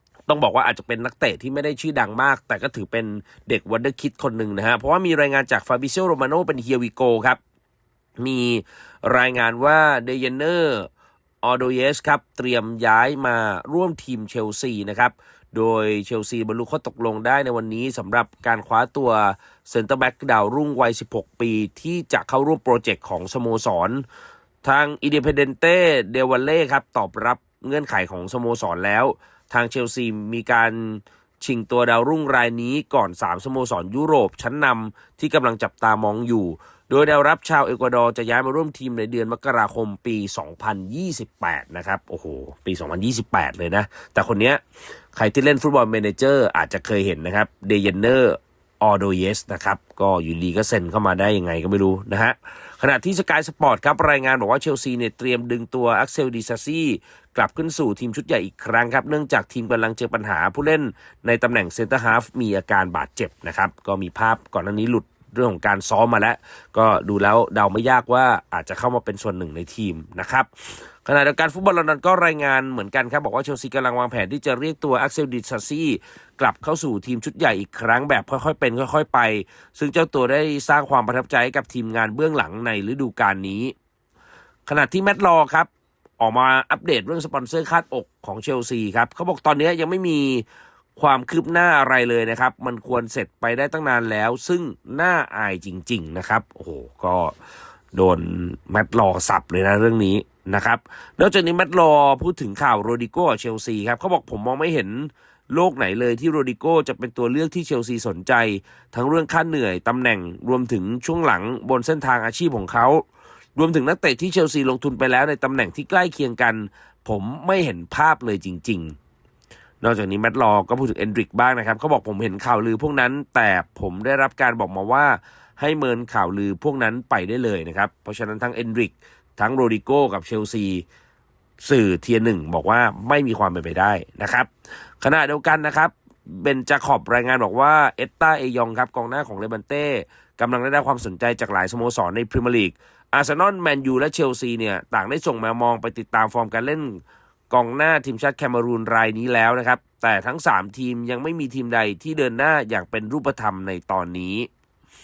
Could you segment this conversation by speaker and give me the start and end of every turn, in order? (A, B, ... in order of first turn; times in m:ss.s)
0:00.3-0:07.4 A
0:08.2-0:10.9 A
0:11.4-0:24.0 A
0:24.6-0:44.6 A
0:45.1-1:23.7 A
1:24.7-1:30.4 A
1:31.0-1:37.3 A
1:37.9-1:53.0 A
1:53.6-1:59.0 A
1:59.8-2:10.8 A
2:11.6-2:14.5 A
2:15.0-2:34.5 A